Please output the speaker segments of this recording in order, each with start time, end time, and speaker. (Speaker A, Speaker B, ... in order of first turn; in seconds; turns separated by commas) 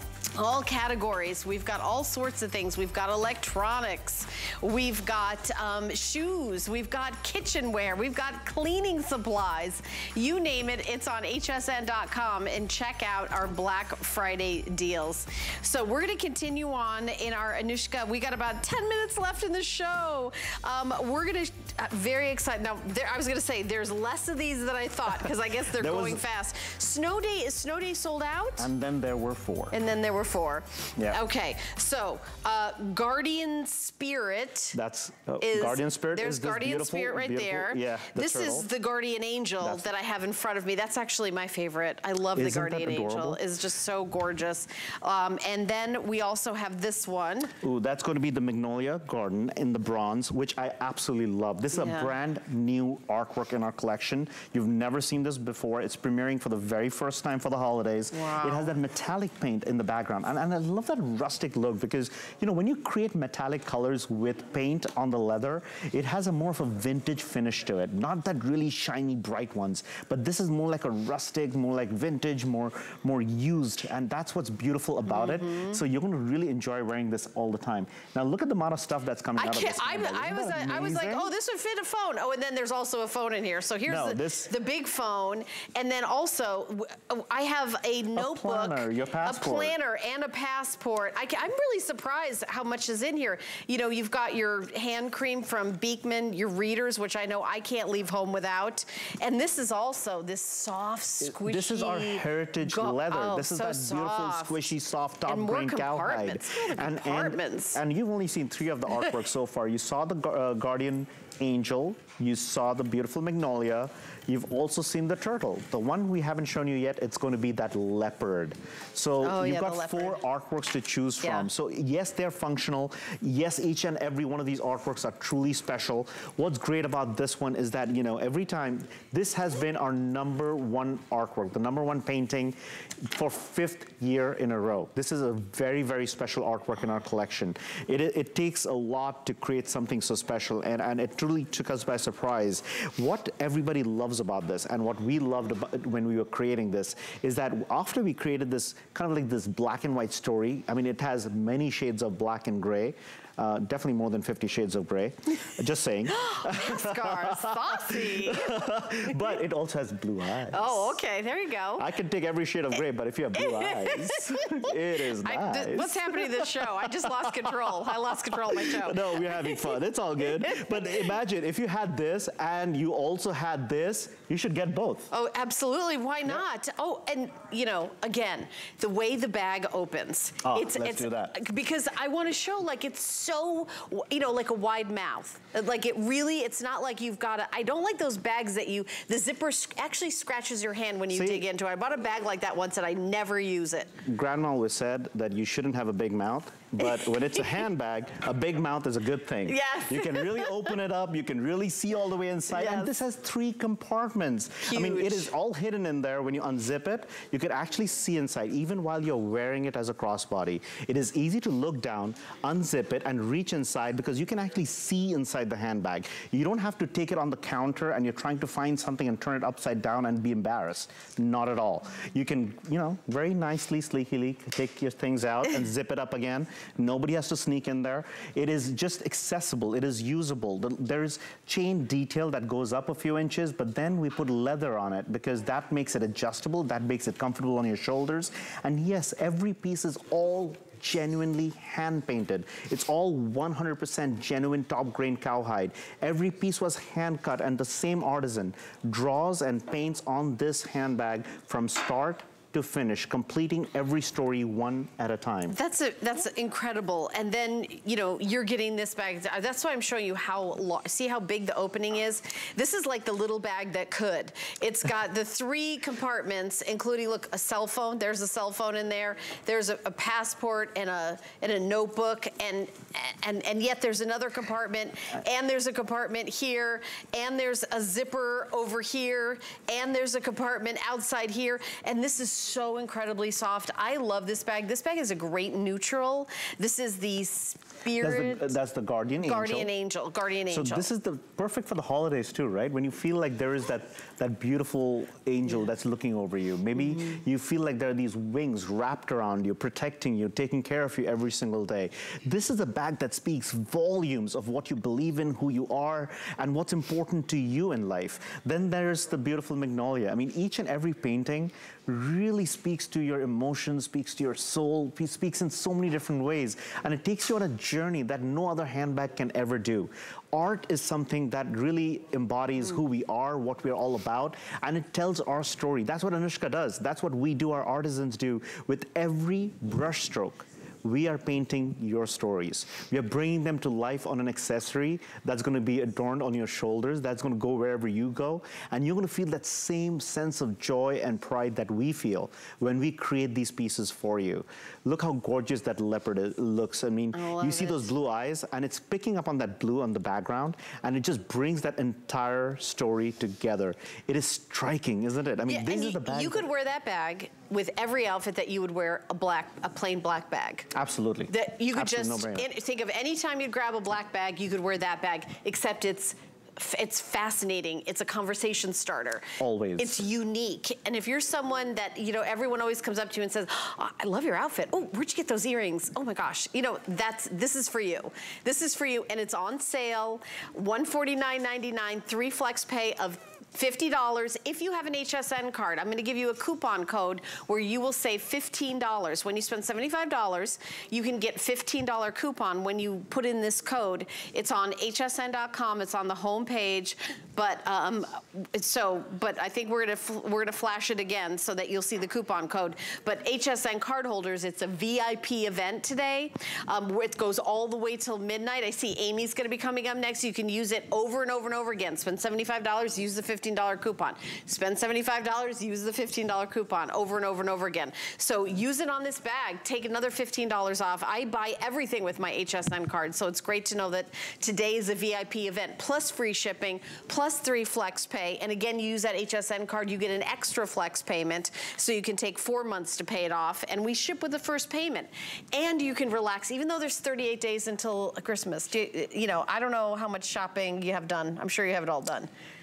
Speaker A: 0.3-28.7, Speaker B: 25.7-26.2, Speaker B: 28.6-29.8, Speaker A: 29.7-34.8, Speaker B: 31.0-31.2, Speaker B: 34.7-38.7, Speaker A: 35.4-47.5, Speaker B: 39.6-39.9, Speaker B: 42.3-43.4, Speaker B: 47.6-81.3, Speaker A: 51.7-52.1, Speaker A: 58.1-58.7, Speaker A: 75.1-75.8, Speaker A: 79.4-104.7, Speaker B: 83.8-84.5, Speaker B: 88.1-89.7, Speaker B: 101.2-161.0, Speaker A: 105.2-107.8, Speaker A: 119.2-120.2, Speaker A: 121.2-121.5, Speaker A: 156.1-159.2, Speaker A: 160.5-161.9, Speaker B: 161.8-175.1, Speaker A: 163.3-171.1, Speaker A: 175.1-193.9, Speaker B: 180.4-181.4, Speaker B: 191.1-191.4, Speaker B: 194.0-255.6, Speaker A: 196.8-197.6, Speaker A: 199.4-200.5, Speaker A: 202.5-203.0, Speaker A: 204.6-205.3, Speaker A: 255.5-288.6, Speaker B: 287.9-289.7, Speaker A: 289.2-290.9, Speaker B: 290.5-356.5, Speaker A: 347.1-347.9, Speaker A: 355.4-360.7, Speaker B: 360.7-362.5, Speaker A: 361.3-442.3, Speaker B: 369.4-370.0